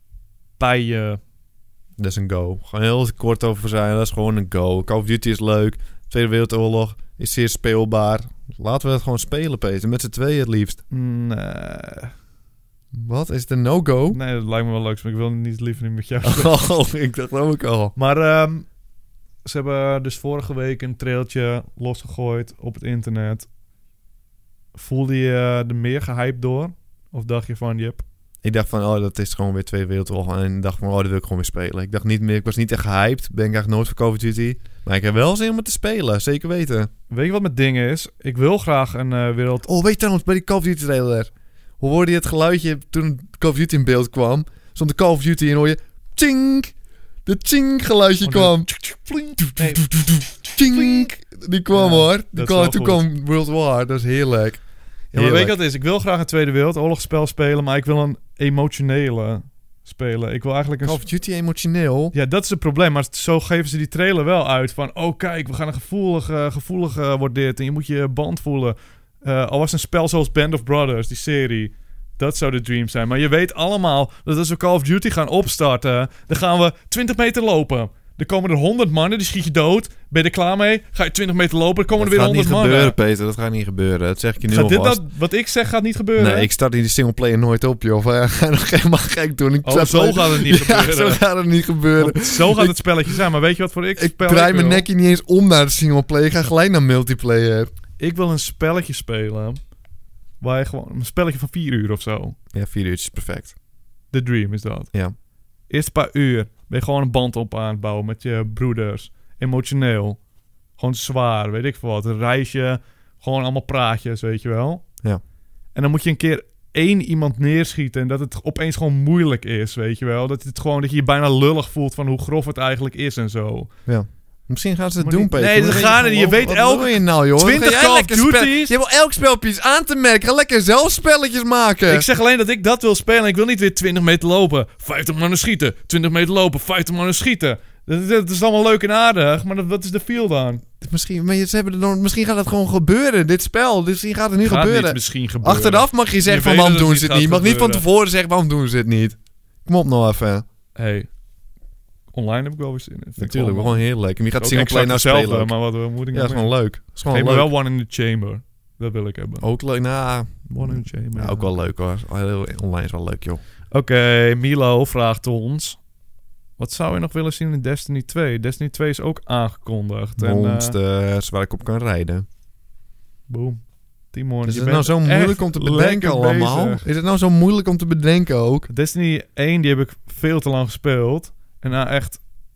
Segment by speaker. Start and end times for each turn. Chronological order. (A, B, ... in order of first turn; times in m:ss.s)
0:00.6-0:01.2 A
0:02.0-0:10.8 B
0:10.9-0:12.1 A
0:12.9-0:14.2 B
0:14.1-0:16.8 A
0:16.2-0:17.9 B
0:18.0-0:18.7 A
0:19.4-0:23.5 A
0:24.7-0:28.0 A
0:28.4-0:36.9 B
0:37.1-0:39.7 A
0:39.6-0:46.7 B
0:47.2-0:48.7 B
0:48.2-0:51.1 A
0:49.6-0:54.6 B
0:51.7-0:53.0 A
0:55.1-1:01.0 A
0:55.1-0:55.6 B
1:00.8-1:02.1 B
1:02.1-1:23.0 A
1:22.0-1:25.0 B
1:24.4-1:26.5 A
1:26.2-1:32.8 B
1:29.6-1:31.2 A
1:32.0-1:34.8 A
1:34.0-1:37.7 B
1:38.0-1:39.6 A
1:40.4-1:42.4 A
1:42.5-1:43.5 B
1:44.1-1:44.9 A
1:45.7-1:50.2 A
1:50.8-1:54.8 A
1:55.7-2:03.7 A
2:03.9-2:12.0 B
2:05.0-2:08.7 A
2:11.9-2:20.6 A
2:20.8-2:30.4 B
2:24.4-2:27.8 A
2:30.7-2:31.1 A
2:32.1-2:33.8 A
2:33.2-2:35.5 B
2:34.4-2:39.4 A
2:36.1-2:37.5 B
2:39.4-2:43.4 B
2:40.5-2:41.5 A
2:43.7-2:45.8 A
2:46.6-2:50.8 A
2:50.2-2:52.2 B
2:53.3-2:56.8 A
2:54.4-2:58.7 B
2:58.7-3:02.2 A